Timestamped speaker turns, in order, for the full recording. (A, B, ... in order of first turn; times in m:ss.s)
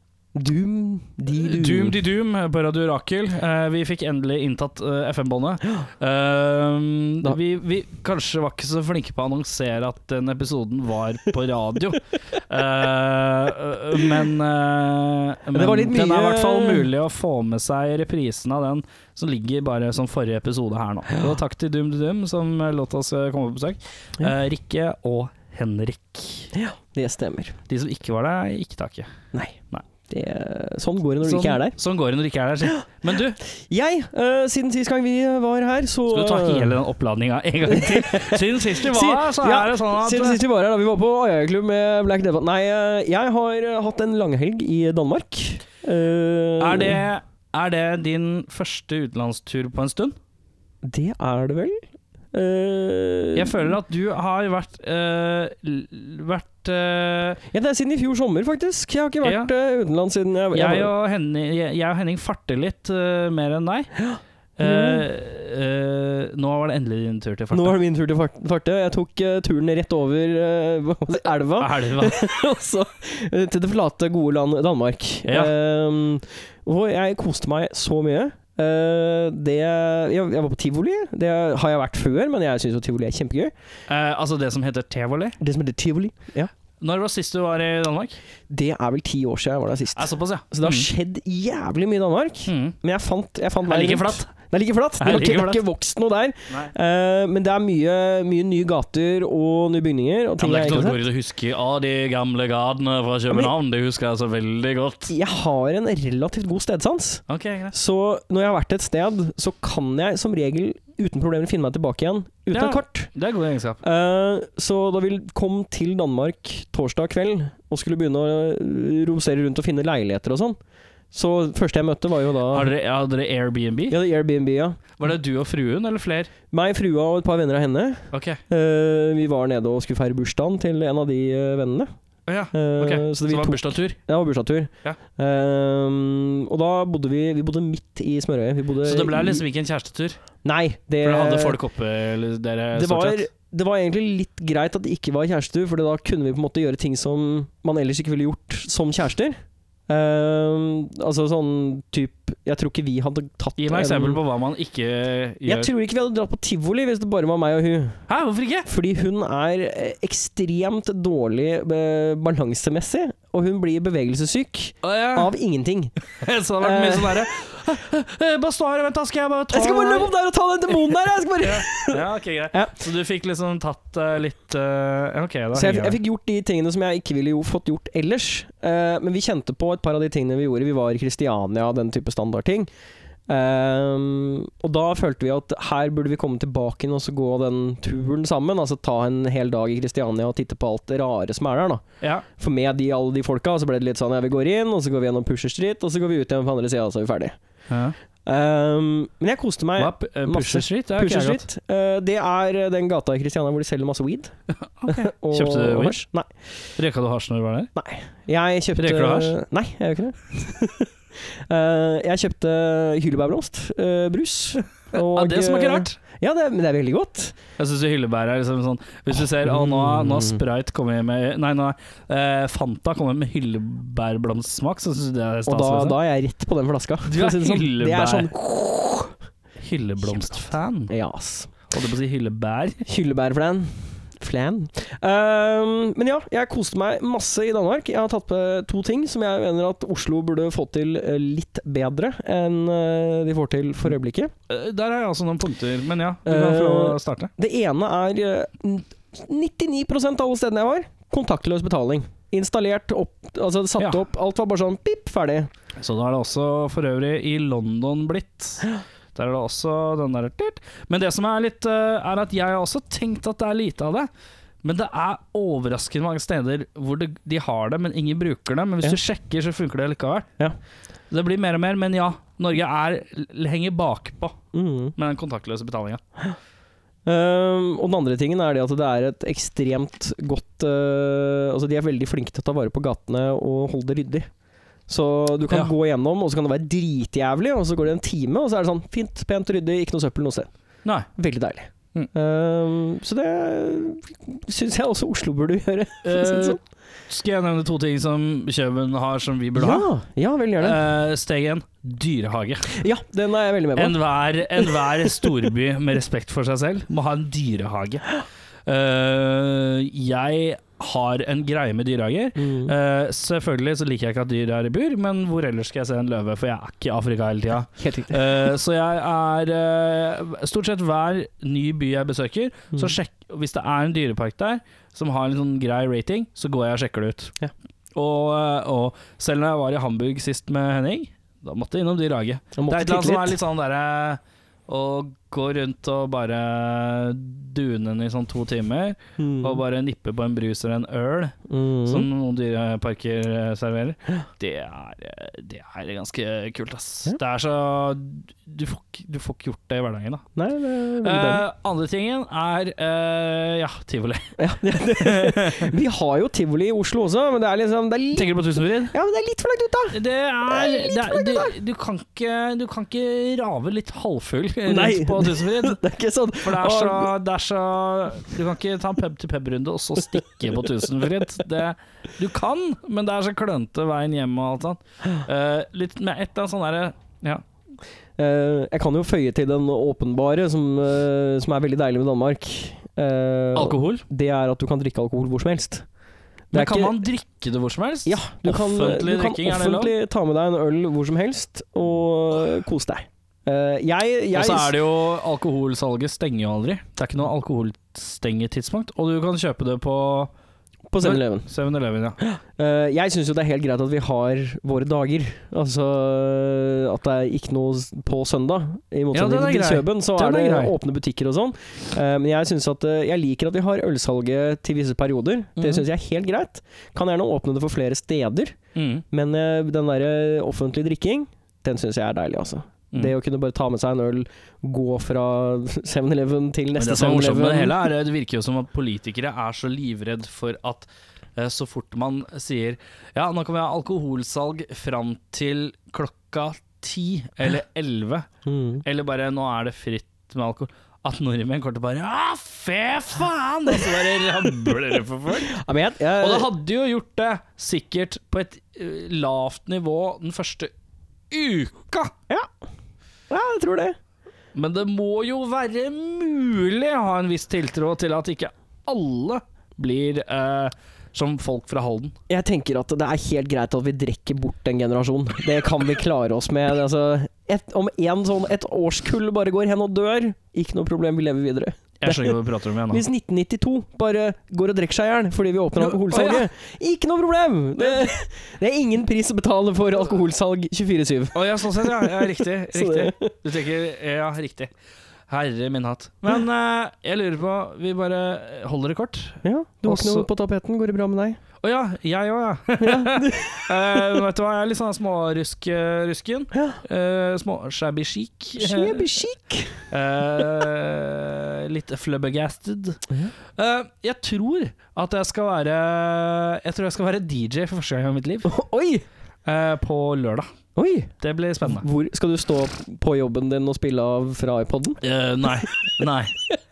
0:00.3-0:02.0 A
0:01.3-0:26.5 B
0:15.5-0:16.9 A
0:26.5-0:27.6 A
0:27.7-0:29.1 B
0:29.3-0:31.8 A
0:31.2-0:33.4 B
0:33.4-0:36.8 A
0:36.1-0:40.4 B
0:37.6-0:47.0 A
0:46.6-0:50.2 B
0:50.8-0:53.7 A
0:53.3-0:57.4 B
0:57.5-1:00.9 A
0:59.2-0:59.5 B
1:00.5-1:03.9 B
1:04.0-1:05.0 A
1:04.6-1:07.8 B
1:07.5-1:23.5 A
1:11.6-1:12.3 B
1:15.2-1:15.5 B
1:23.9-1:25.4 B
1:25.4-1:26.5 A
1:26.8-1:28.2 B
1:28.5-1:41.0 A
1:30.0-1:30.9 B
1:32.4-1:32.8 B
1:33.6-1:34.3 B
1:35.0-1:35.6 B
1:40.4-1:45.1 B
1:45.1-1:53.1 A
1:47.3-1:47.8 B
1:52.5-1:53.8 B
1:53.8-2:00.6 A
2:01.1-2:02.7 A
2:02.5-2:04.0 B
2:03.9-2:04.8 A
2:05.0-2:06.3 B
2:06.5-2:11.9 A
2:08.1-2:08.4 B
2:12.3-2:14.0 B
2:12.5-2:19.4 A
2:18.8-2:20.2 B
2:20.4-2:21.6 A
2:21.0-2:23.3 B
2:22.7-2:34.2 A
2:33.6-2:35.7 B
2:35.4-2:38.0 A
2:38.1-2:38.7 B
2:38.6-2:45.9 A
2:44.8-2:45.3 B
2:46.2-2:50.1 B
2:46.6-2:47.3 A
2:49.5-2:52.8 A
2:50.8-2:56.0 B
2:55.5-3:02.7 A
3:03.3-3:11.8 A
3:12.0-3:12.2 B
3:12.4-3:17.4 A
3:17.7-3:18.0 B
3:18.2-3:24.3 A
3:19.8-3:21.4 B
3:24.7-3:26.0 B
3:24.8-3:26.3 A
3:26.8-3:27.7 B
3:27.8-3:37.4 A
3:28.8-3:29.4 B
3:34.9-3:36.0 B
3:37.6-3:46.0 B
3:39.2-3:40.4 A
3:45.5-3:49.1 A
3:47.0-3:48.3 B
3:49.6-3:50.9 B
3:50.0-3:51.5 A
3:51.7-3:52.8 B
3:52.8-4:04.3 A
4:04.5-4:07.3 B
4:06.2-4:15.5 A
4:13.8-4:14.0 B
4:15.8-4:24.1 B
4:24.6-4:30.3 B
4:31.1-4:34.4 B
4:34.5-4:34.9 A
4:35.0-4:36.0 B
4:37.0-4:44.3 A
4:44.9-4:50.5 A
4:51.1-4:56.6 A
4:56.0-4:59.9 B
4:59.6-5:00.8 A
5:00.6-5:02.8 B
5:02.7-5:04.0 A
5:03.8-5:08.2 B
5:04.6-5:05.3 A
5:08.7-5:27.3 B
5:12.4-5:12.7 A
5:17.8-5:18.5 A
5:27.9-5:41.3 B
5:32.6-5:33.4 A
5:39.2-5:39.6 A
5:41.5-5:42.1 A
5:41.9-5:50.3 B
5:50.3-5:51.4 A
5:51.0-5:54.3 B
5:54.4-5:58.4 A
5:55.0-5:55.7 B
5:58.1-5:58.9 B
5:58.9-6:00.0 A
5:59.9-6:05.8 B
6:00.5-6:01.5 A
6:04.7-6:07.1 A
6:06.4-6:17.4 B
6:18.2-6:25.8 A
6:23.5-6:24.0 B
6:26.5-6:27.0 A
6:26.5-6:29.9 B
6:28.0-6:34.8 A
6:34.3-6:40.3 B
6:40.9-6:41.5 A
6:41.0-6:42.2 B
6:42.2-6:58.6 A
6:49.1-6:50.7 B
6:55.6-6:55.8 B
6:58.7-6:59.0 B
6:59.1-7:07.9 A
7:06.8-7:18.3 B
7:18.4-7:18.8 A
7:18.8-7:25.6 B
7:25.5-7:26.5 A
7:26.2-7:30.7 B
7:31.3-7:32.1 B
7:33.3-7:34.0 A
7:34.5-7:42.2 B
7:42.3-7:52.4 A
7:52.0-7:53.0 B
7:52.9-8:03.3 A
7:55.8-7:56.5 B
7:57.8-7:58.1 B
8:01.3-8:04.7 B
8:05.3-8:10.3 B
8:09.4-8:11.4 A
8:11.6-8:19.0 B
8:12.8-8:13.4 A
8:16.5-8:16.8 A
8:18.6-8:19.8 A
8:19.9-8:23.0 B
8:23.6-8:28.5 B
8:28.4-8:29.0 A
8:29.4-8:30.5 B
8:30.8-8:35.0 A
8:31.2-8:31.9 B
8:35.0-8:36.3 B